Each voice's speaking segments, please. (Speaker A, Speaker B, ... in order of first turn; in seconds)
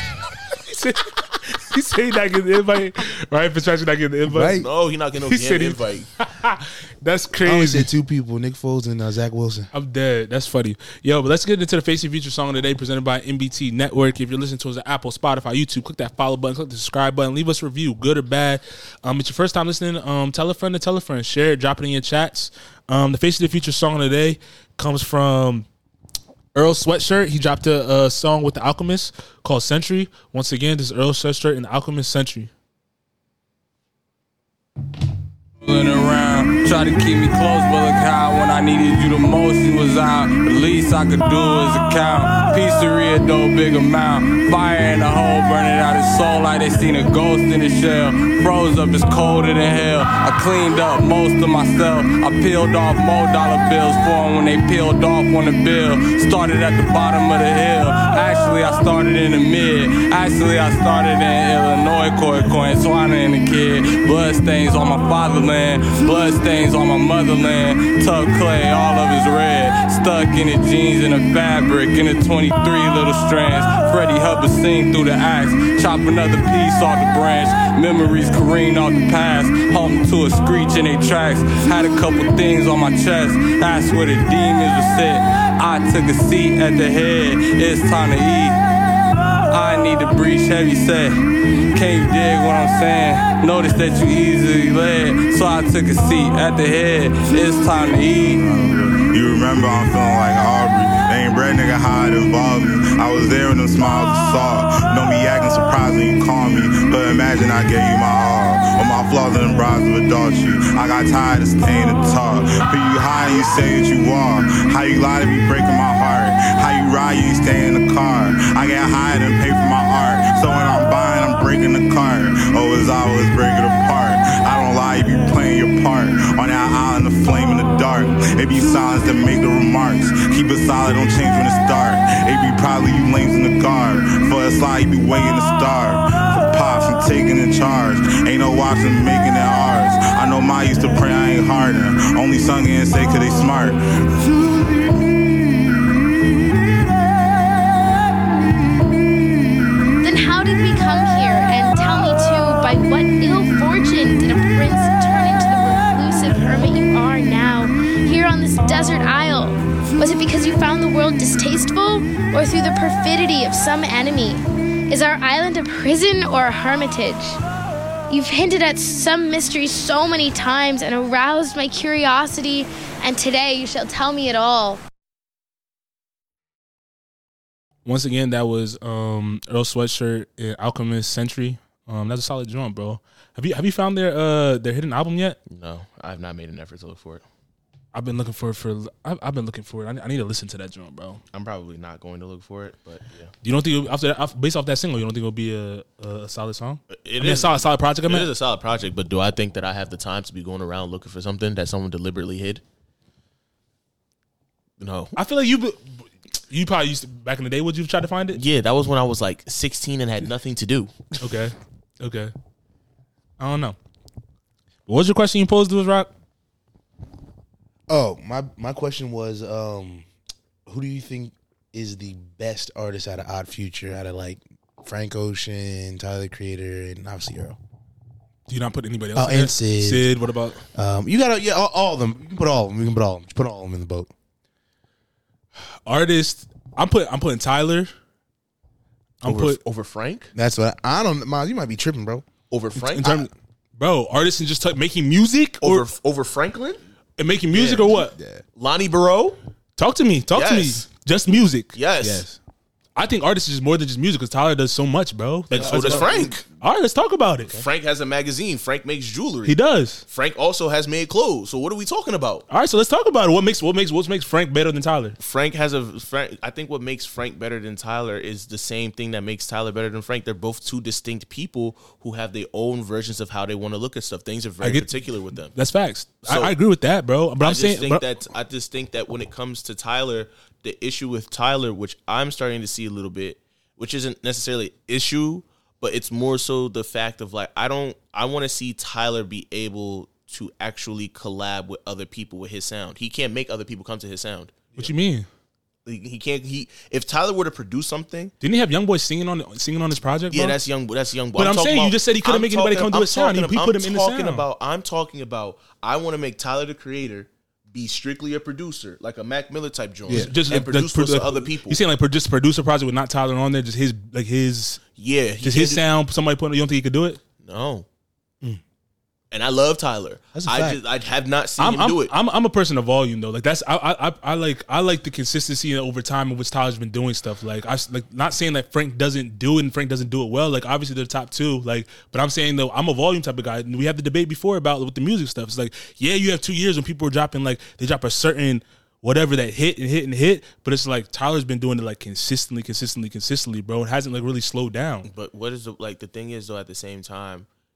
Speaker A: 0.1-4.6, 5.3-7.9, 9.7-25.6, 26.5-32.5, 177.8-185.4, 187.9-191.2, 193.4-198.3, 205.2-208.4, 211.2-212.3, 213.4-213.8, 214.9-216.1, 228.5-230.6, 235.8-237.9, 239.2-239.6, 242.8-245.8, 247.2-248.1, 249.8-252.4, 252.9-257.6, 259.4-260.0, 262.5-265.1, 274.6-274.9, 275.5-278.0, 294.8-295.3, 298.4-300.6, 301.4-304.4, 310.1-314.8, 315.4-317.2, 321.6-345.1
Speaker B: 4.3-4.7, 7.4-9.7, 217.9-220.1, 220.7-227.6, 229.1-230.1, 230.7-234.1, 240.3-242.2, 247.8-248.4, 255.6-256.3, 320.3-320.8
Speaker C: 4.5-6.1, 185.5-187.2, 191.3-193.3, 196.9-202.6, 204.8-205.2, 208.3-210.9, 239.2-240.3, 242.5-243.2, 245.6-246.8, 247.5-247.9, 248.5-249.4, 250.3-250.8, 251.7-252.2, 255.5-256.4, 257.5-262.4, 265.2-275.6, 276.2-276.5, 277.4-294.9, 295.8-298.3, 300.3-311.8, 314.9-315.8, 317.4-317.9, 319.3-322.1, 345.0-347.5
Speaker D: 35.6-88.6, 89.5-91.2, 91.7-98.4
Speaker E: 98.2-143.8
Speaker F: 150.0-167.4, 168.1-174.8